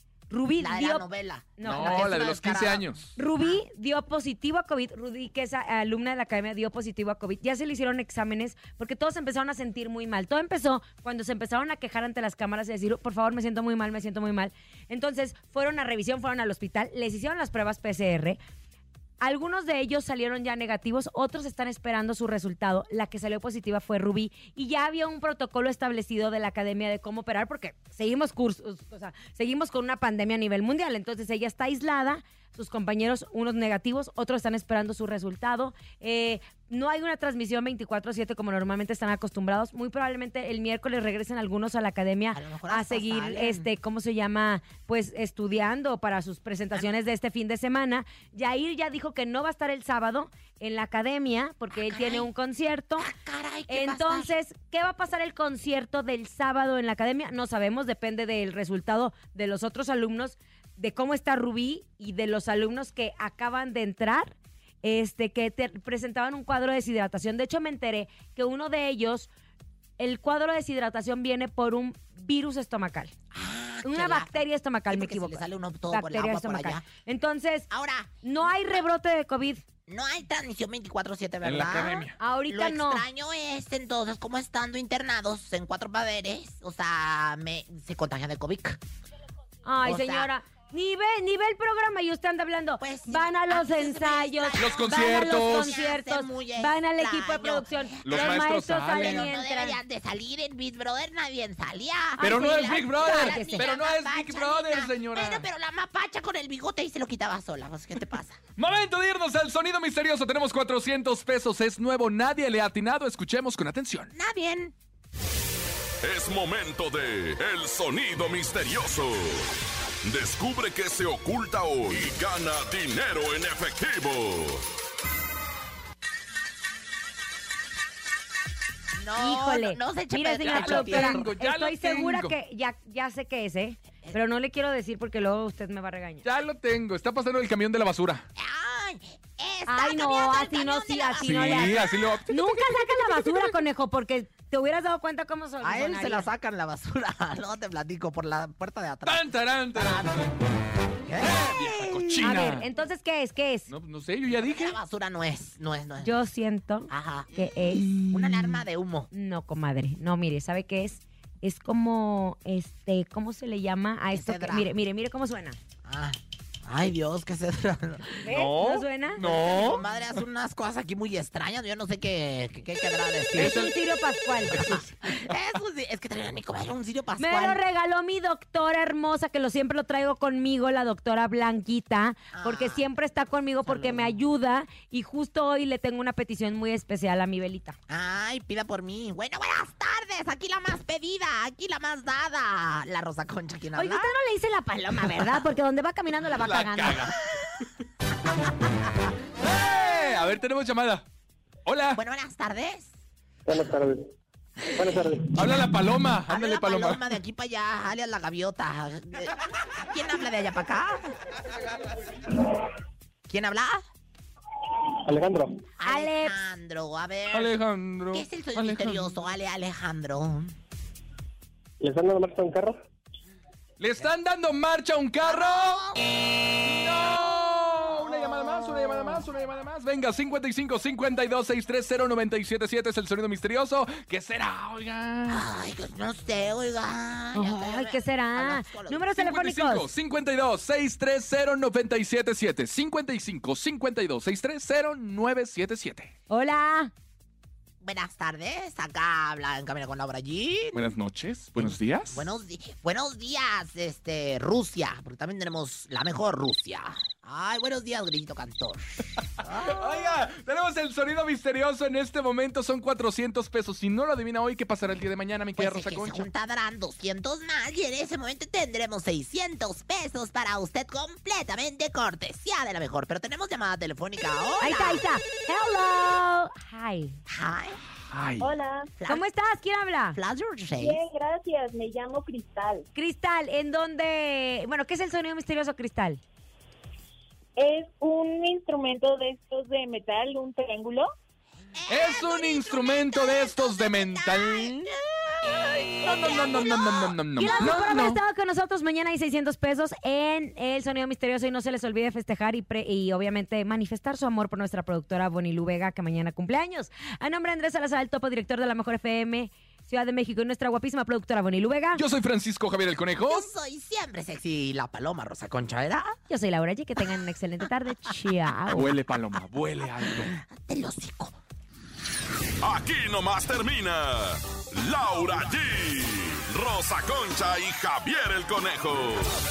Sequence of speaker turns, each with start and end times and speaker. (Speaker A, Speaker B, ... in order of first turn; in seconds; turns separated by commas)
Speaker A: 0.3-1.1, Speaker B: 0.6-3.6, Speaker A: 1.6-2.2, Speaker C: 1.6-3.0, Speaker A: 3.1-18.4, Speaker A: 19.2-53.1, Speaker B: 42.3-43.7, Speaker B: 51.7-52.3, Speaker B: 53.0-54.3, Speaker A: 53.7-69.3, Speaker A: 70.0-73.1, Speaker B: 73.3-76.8, Speaker A: 73.8-77.7, Speaker B: 77.7-78.8, Speaker A: 78.2-79.6, Speaker B: 79.9-88.8, Speaker C: 81.4-82.2, Speaker A: 82.2-83.0, Speaker A: 89.6-99.8, Speaker B: 89.8-90.3, Speaker B: 92.8-108.4, Speaker C: 94.6-95.7, Speaker C: 98.0-99.3, Speaker A: 102.2-103.7, Speaker C: 102.2-105.4, Speaker C: 108.6-114.1, Speaker B: 114.1-114.7, Speaker D: 116.0-119.5, Speaker D: 120.0-124.6, Speaker B: 128.9-131.3, Speaker A: 129.2-136.2, Speaker C: 130.4-132.3, Speaker C: 136.2-138.2, Speaker B: 138.3-142.2, Speaker A: 139.7-146.3, Speaker C: 141.2-142.3, Speaker B: 145.6-150.3, Speaker C: 149.0-150.3, Speaker B: 151.0-152.5, Speaker C: 151.2-152.7, Speaker A: 152.2-153.7, Speaker C: 153.7-154.8, Speaker B: 154.3-156.2, Speaker A: 156.0-158.0, Speaker B: 156.9-159.1, Speaker A: 159.1-165.6, Speaker B: 164.1-164.7, Speaker B: 165.8-168.3, Speaker A: 168.2-169.2, Speaker C: 168.3-169.8, Speaker B: 169.2-173.7, Speaker A: 173.3-174.6, Speaker C: 173.4-173.7, Speaker B: 174.5-177.6, Speaker C: 174.5-174.8, Speaker A: 177.2-187.8, Speaker B: 182.3-182.8, Speaker B: 183.6-184.2, Speaker B: 187.9-194.1, Speaker A: 193.8-197.1, Speaker C: 196.4-197.6, Speaker C: 199.4-201.0, Speaker C: 201.7-202.0, Speaker B: 201.9-202.9, Speaker E: 203.5-204.0, Speaker B: 204.8-205.0, Speaker E: 204.8-205.3, Speaker C: 205.2-207.1, Speaker B: 206.3-211.2, Speaker B: 213.3-213.8, Speaker E: 215.1-215.5, Speaker B: 215.8-217.5, Speaker A: 215.8-216.4, Speaker C: 217.3-219.1, Speaker B: 218.1-220.5, Speaker E: 221.8-222.7, Speaker C: 223.8-225.9, Speaker B: 225.2-226.1, Speaker C: 226.6-235.4, Speaker B: 235.3-239.1, Speaker A: 237.3-239.9, Speaker C: 239.2-246.1, Speaker A: 246.3-246.9, Speaker B: 247.8-250.9, Speaker C: 250.7-252.2, Speaker B: 251.6-260.1, Speaker C: 259.4-266.3, Speaker B: 265.6-275.0, Speaker A: 274.6-277.2, Speaker B: 277.3-277.8, Speaker C: 278.1-278.5, Speaker F: 278.4-278.9, Speaker B: 279.0-279.2, Speaker A: 279.1-280.2, Speaker B: 280.1-281.0, Speaker F: 280.7-282.9, Speaker A: 282.9-286.2, Speaker F: 287.6-291.1, Speaker B: 291.7-297.8, Speaker C: 291.9-298.2, Speaker A: 297.4-312.0, Speaker C: 311.9-313.5, Speaker B: 313.2-316.2, Speaker A: 316.3-318.9, Speaker C: 318.7-320.4, Speaker B: 320.2-321.3, Speaker D: 322.6-329.3